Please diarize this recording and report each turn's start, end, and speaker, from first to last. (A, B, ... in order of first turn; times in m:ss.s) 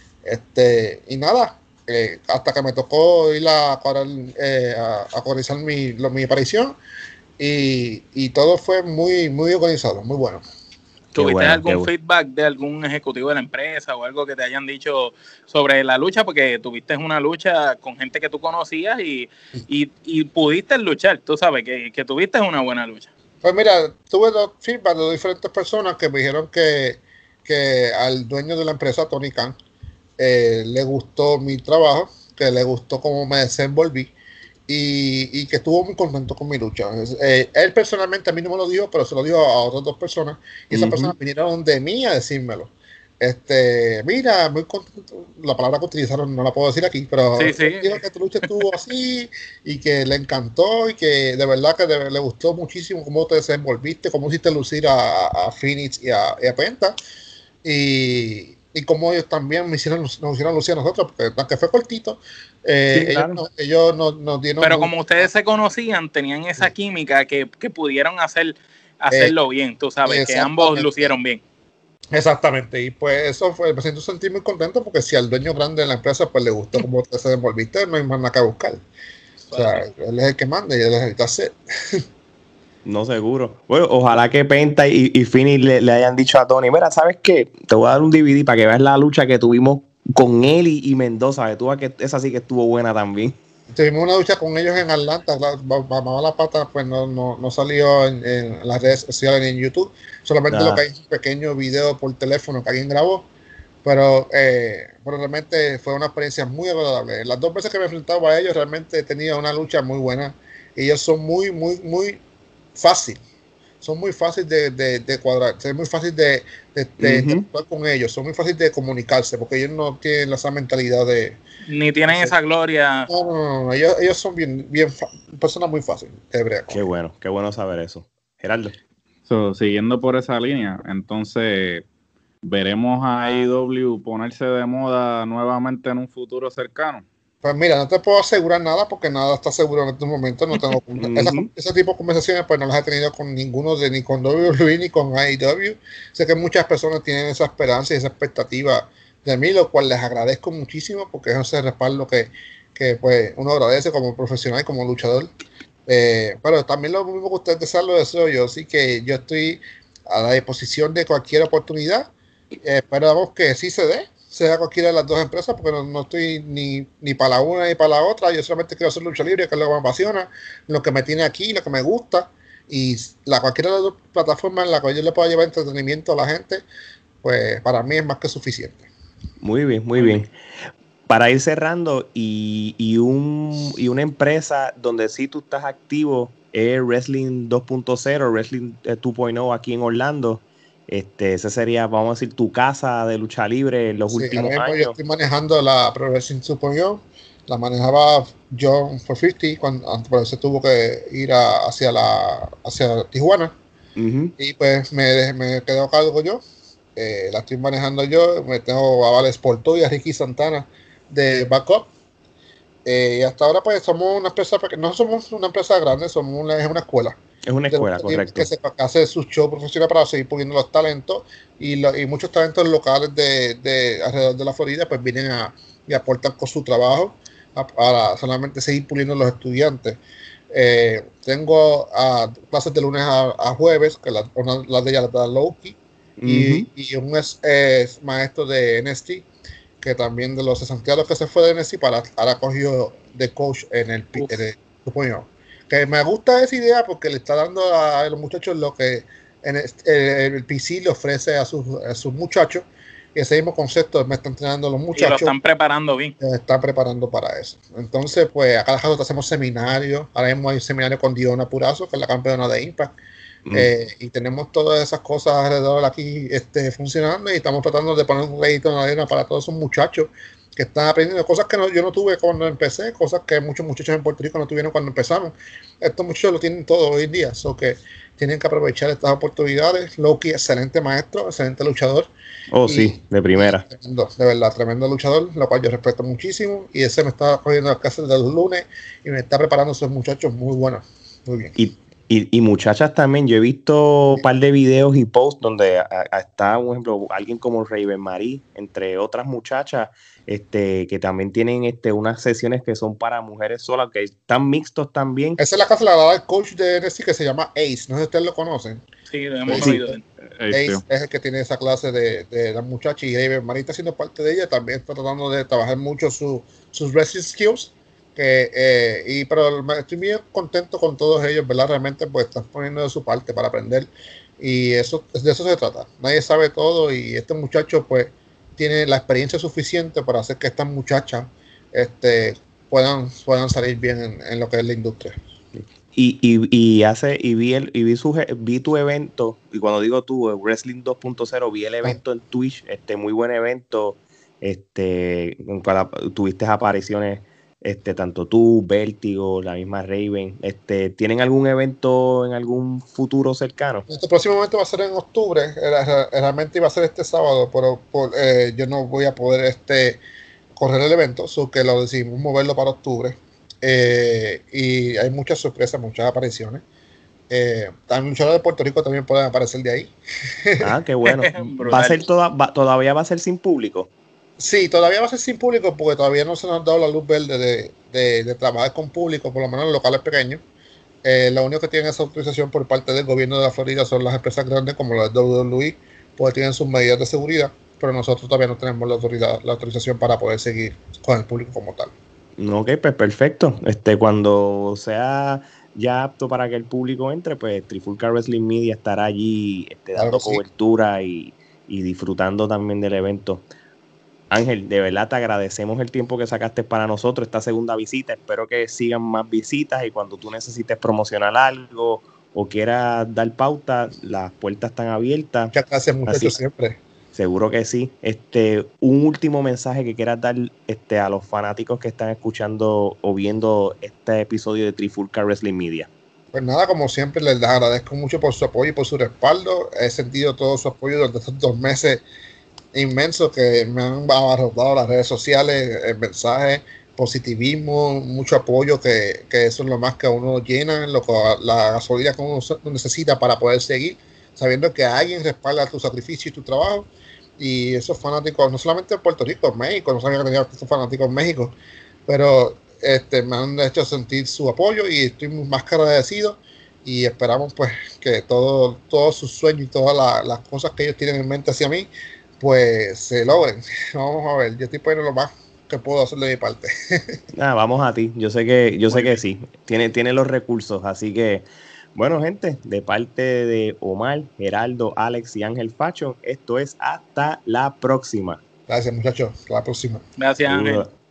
0:00.2-0:06.8 A
0:07.4-0:10.4 A
0:11.1-0:11.9 B
0:11.2-0:23.1 C
0:23.4-0:29.6 A
0:30.2-0:34.1 A
0:34.7-0:57.0 A
0:40.7-0:41.1 B
0:47.4-0:48.6 C
0:57.6-1:05.3 A
1:02.9-1:03.4 B
1:04.6-1:11.4 C
1:10.1-1:11.1 A
1:12.1-1:18.8 A
1:19.5-1:19.9 C
1:19.5-1:22.0 A
1:22.8-1:33.4 B
1:33.7-1:43.3 A
1:40.5-1:40.8 B
1:43.8-1:52.2 A
1:52.8-1:53.2 A
1:53.8-2:01.4 A
1:57.0-1:57.5 B
2:01.7-2:03.1 C
2:02.1-2:02.3 A
2:03.1-2:06.8 A
2:06.7-2:08.8 B
2:09.3-2:11.8 D
2:12.4-2:17.1 D
2:17.4-2:35.3 A
2:21.0-2:21.5 B
2:35.9-2:42.1 A
2:42.6-2:56.6 A
2:57.2-2:58.9 A
2:59.4-3:00.3 B
3:01.1-3:15.0 B
3:14.1-3:23.6 A
3:24.0-3:24.4 B
3:24.4-3:26.4 A
3:27.0-3:31.9 A
3:32.8-3:37.2 A
3:37.5-3:38.5 B
3:37.7-3:50.0 A
3:50.5-3:59.3 A
3:56.2-3:56.7 B
3:59.8-4:15.3 A
4:15.0-4:16.1 C
4:16.2-4:22.9 A
4:23.5-4:23.7 B
4:23.5-4:42.1 A
4:42.5-4:43.6 B
4:42.6-4:51.6 A
4:51.6-5:05.4 B
5:05.4-5:08.8 A
5:09.1-5:10.0 C
5:09.5-5:10.0 A
5:09.6-5:09.8 B
5:10.4-5:10.8 D
5:10.5-5:35.2 A
5:35.9-5:53.8 B
5:53.9-6:00.0 A
6:00.6-6:06.6 A
6:07.3-6:10.7 A
6:10.6-6:13.9 B
6:11.1-6:12.0 C
6:14.4-6:20.4 A
6:21.0-6:31.9 A
6:32.4-6:43.5 B
6:40.0-6:40.4 A
6:44.3-6:55.5 B
6:55.5-6:56.8 A
6:56.1-6:56.4 B
6:57.1-7:05.9 B
7:06.3-7:12.0 A
7:12.7-7:31.6 A
7:32.1-7:47.2 A
7:47.3-7:58.4 B
7:48.9-7:49.2 A
7:58.7-8:00.0 A
8:00.2-8:00.8 C
8:00.5-8:00.9 B